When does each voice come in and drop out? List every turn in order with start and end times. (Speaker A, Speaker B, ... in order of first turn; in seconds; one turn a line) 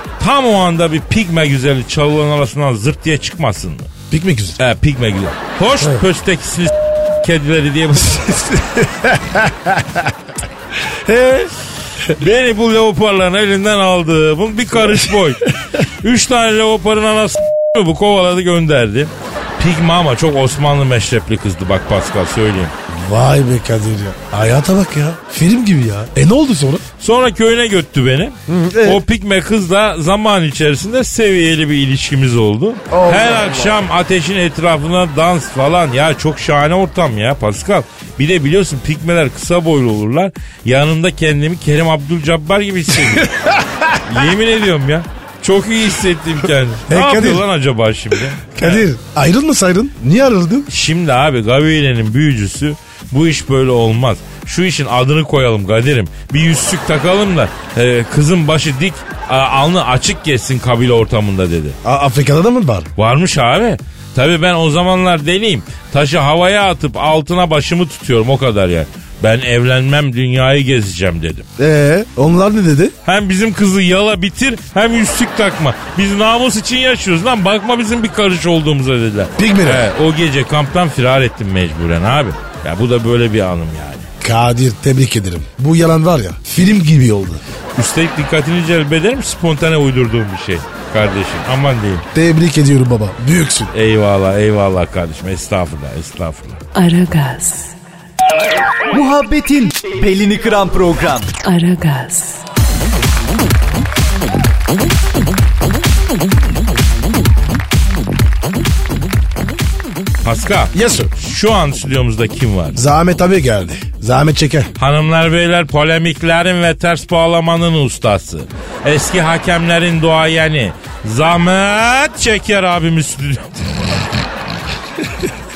Speaker A: 0.2-3.9
Speaker B: 4.1-4.6
Speaker A: 4.6-8.3
Speaker B: 8.1-10.1
Speaker B: 10.9-11.5
Speaker A: 12.2-15.4
Speaker A: 16.0-22.7
Speaker B: 22.9-26.8
Speaker A: 27.0-43.3
Speaker B: 28.5-29.0
Speaker B: 32.9-33.8
Speaker B: 43.0-44.0
Speaker A: 44.0-48.9
Speaker B: 46.9-47.4
Speaker B: 48.5-50.7
Speaker A: 50.7-61.8
Speaker B: 61.8-62.9
Speaker A: 63.0-71.5
Speaker B: 71.6-72.9
Speaker A: 73.0-84.1
Speaker B: 79.4-79.8
Speaker B: 84.2-87.4
Speaker A: 87.8-92.0
Speaker B: 92.1-93.7
Speaker A: 93.7-96.6
Speaker C: 96.7-97.8
Speaker D: 98.9-101.3
Speaker C: 101.4-102.4
Speaker A: 110.2-112.8
Speaker B: 110.7-111.1
Speaker B: 112.7-114.7
Speaker A: 114.8-124.0